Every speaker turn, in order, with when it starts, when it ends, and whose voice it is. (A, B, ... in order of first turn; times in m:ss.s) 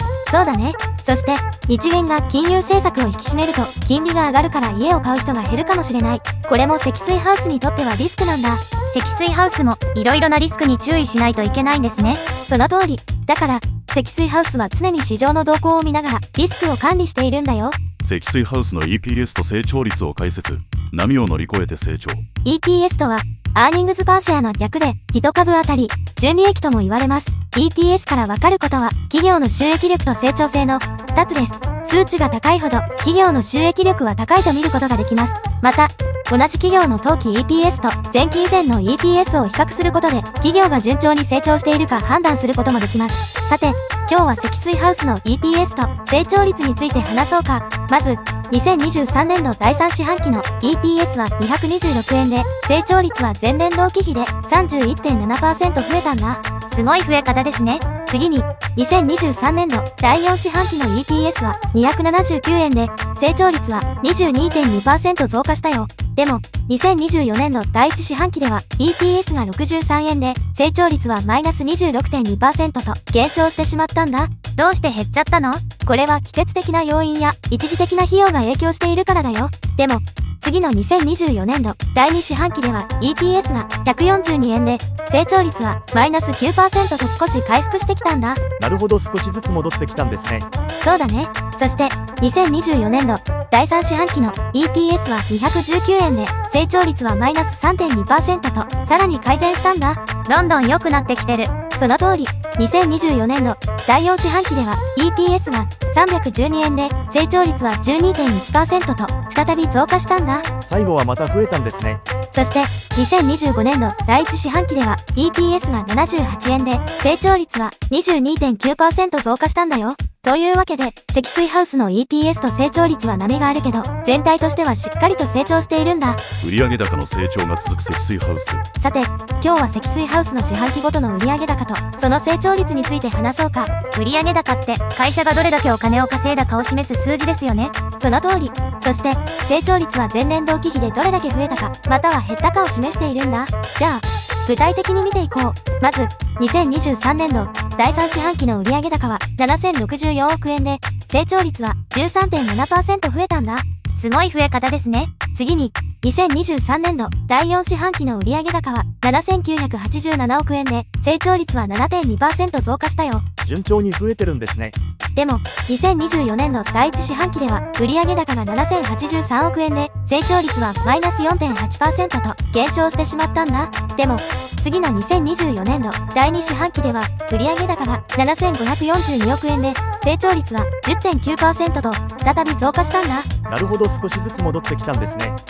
0:00.3-0:08.6 A
0:08.9-0:12.2 B
0:12.5-0:17.8 A
0:18.0-0:22.2 C
0:22.4-0:56.4 A
0:56.7-0:57.8 B
0:58.1-1:14.3 A
1:14.6-1:15.6 B
1:15.8-1:28.4 A
1:28.6-1:30.5 D
1:30.8-1:40.0 A
1:40.3-1:41.5 B
1:41.8-1:50.5 A
1:50.6-1:52.0 D
1:52.3-2:06.2 A
2:06.4-2:08.6 C
2:08.8-2:13.7 A
2:13.9-2:17.7 B
2:18.0-2:33.6 A
2:33.9-2:35.1 B
2:35.3-2:43.2 A
2:43.4-2:44.8 D
2:45.2-3:03.3 A
3:03.5-3:05.4 D